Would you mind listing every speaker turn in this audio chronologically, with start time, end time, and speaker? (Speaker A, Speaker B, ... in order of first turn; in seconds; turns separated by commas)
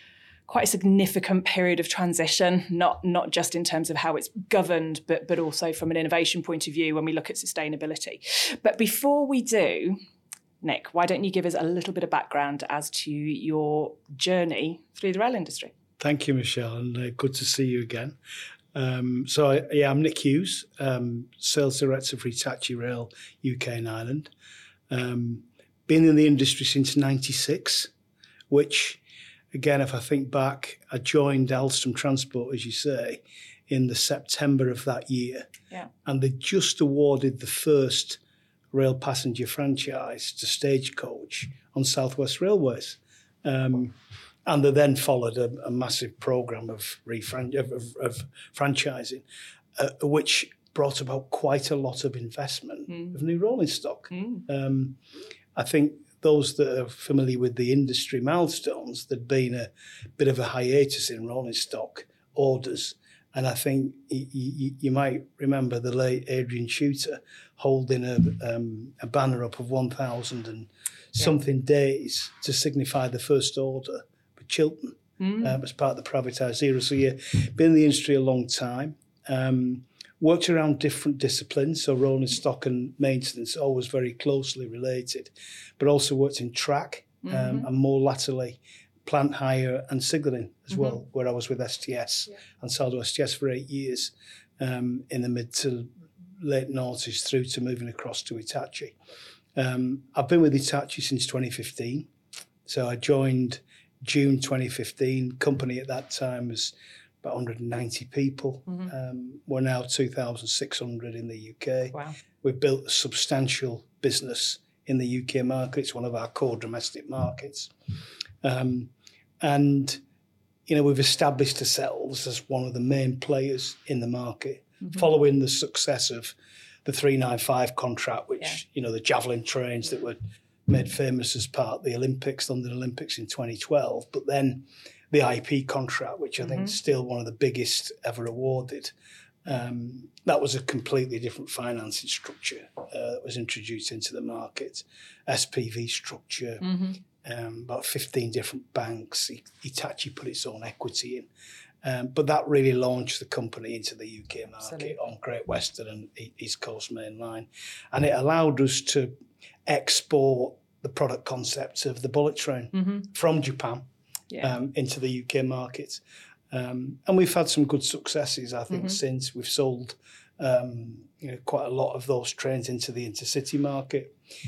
Speaker A: 0.5-10.0, Speaker A: 10.6-15.7, Speaker B: 16.0-18.2, Speaker B: 18.7-24.3, Speaker B: 24.9-27.9, Speaker B: 28.5-29.0, Speaker B: 29.5-35.5, Speaker B: 36.0-38.2, Speaker B: 38.7-49.2, Speaker B: 49.8-55.0, Speaker A: 52.9-53.1, Speaker A: 54.1-54.4, Speaker B: 55.5-99.0, Speaker A: 75.2-75.5, Speaker A: 87.3-87.6, Speaker B: 99.5-102.1, Speaker B: 102.7-117.7, Speaker B: 118.4-120.0, Speaker B: 120.7-138.9, Speaker A: 136.4-136.7, Speaker B: 139.4-146.7, Speaker A: 146.6-147.0, Speaker B: 147.2-151.3, Speaker B: 151.8-159.2, Speaker A: 154.7-154.9, Speaker B: 159.7-163.9, Speaker A: 162.7-163.0, Speaker B: 164.4-174.2